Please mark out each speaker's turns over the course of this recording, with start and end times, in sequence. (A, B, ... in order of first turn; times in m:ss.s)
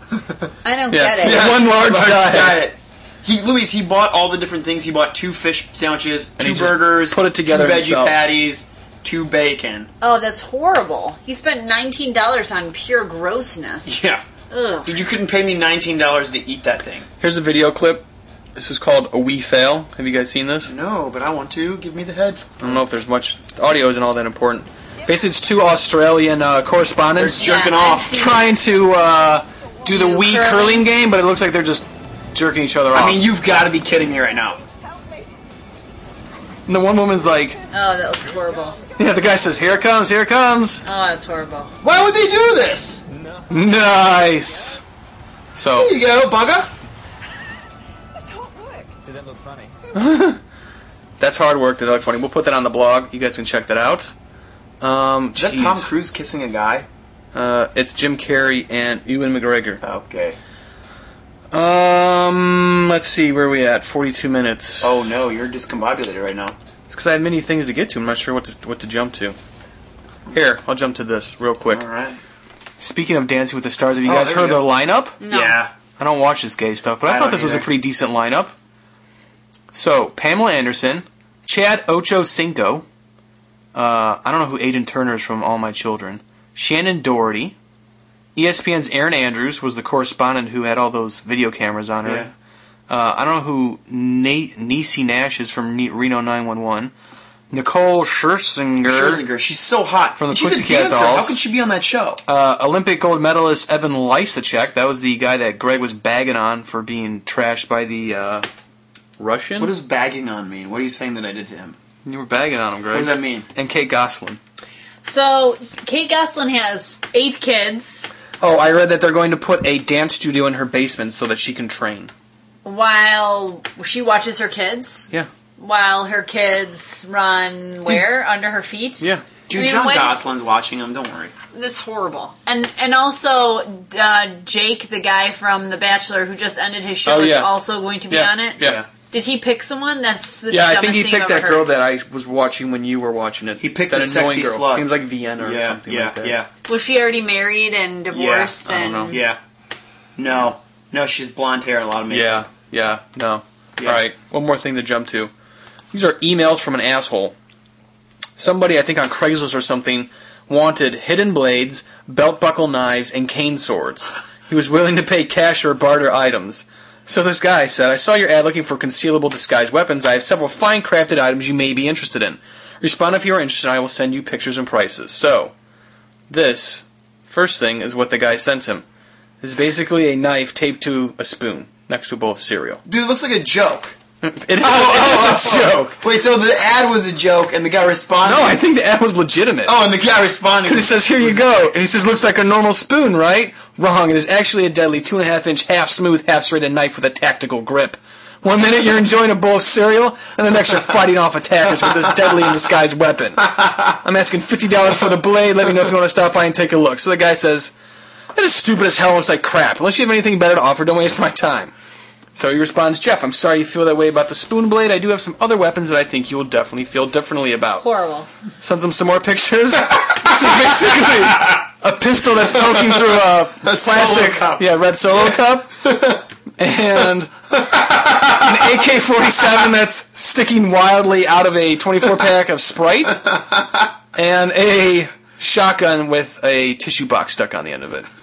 0:00.6-0:01.5 A
0:00.9-0:02.6 B
0:01.2-0:09.9 C
0:06.4-0:08.2 B
0:10.0-0:15.0 A
0:13.8-0:14.2 C
0:14.8-0:17.0 C
0:17.2-0:18.0 B
0:18.6-0:20.7 B
0:20.6-0:23.0 C
0:22.6-0:27.5 B
0:27.2-0:28.3 C
0:27.4-0:28.5 A
0:28.1-0:33.3 B
0:29.9-0:30.9 A
0:32.9-0:34.6 C
0:36.7-0:37.6 B
0:37.7-0:38.8 A
0:39.0-0:40.8 B
0:40.8-0:41.7 A
0:41.8-0:43.0 C
0:43.5-0:44.8 B
0:45.5-0:45.9 B
0:45.8-0:46.7 C
0:49.9-0:50.4 B
0:51.2-0:54.1 B
0:54.8-0:55.9 B
0:55.4-0:56.8 C
0:57.3-0:59.8 B
0:59.8-1:00.4 C
1:01.5-1:04.9 B
1:04.8-1:06.5 C
1:06.9-1:09.4 B
1:10.3-1:11.8 B
1:11.7-1:12.2 C
1:12.8-1:15.2 B
1:14.0-1:14.6 C
1:15.2-1:15.6 A
1:15.2-1:15.7 C
1:16.0-1:18.5 B
1:17.0-1:17.7 C
1:19.7-1:22.8 B
1:23.7-1:27.5 B
1:28.4-1:32.3 B
1:32.0-1:32.3 C
1:32.9-1:36.9 B
1:37.5-1:39.2 B
1:38.8-1:42.2 C
1:40.2-1:41.4 B
1:42.3-1:48.5 B
1:49.2-1:49.7 B
1:49.6-1:51.8 C
1:52.0-1:54.4 B
1:52.9-1:53.5 C
1:55.0-1:58.1 A
1:58.4-2:02.1 B
2:02.6-2:10.1 A
2:09.5-2:11.3 C
2:11.5-2:18.6 A
2:17.0-2:17.5 B
2:18.1-2:18.8 B
2:18.6-2:18.8 C
2:19.1-2:21.6 A
2:20.5-2:26.3 B
2:23.6-2:26.5 C
2:26.6-2:29.2 A
2:28.1-2:29.4 C
2:28.6-2:29.2 B
2:30.2-2:32.4 C
2:32.1-2:35.3 B
2:35.9-2:37.3 B
2:38.4-2:55.5 B
2:56.3-2:58.8 B
2:59.4-3:02.8 B
3:02.8-3:03.9 C
3:04.2-3:06.0 B
3:04.6-3:08.6 C
3:08.2-3:09.7 B
3:09.6-3:11.5 C
3:10.6-3:27.7 B
3:28.3-3:31.7 B
3:32.3-3:37.8 B
3:37.8-3:38.3 A
3:38.6-3:47.3 B
3:42.6-3:44.6 C
3:47.7-3:48.5 C
3:48.2-3:53.4 B
3:54.1-3:58.0 B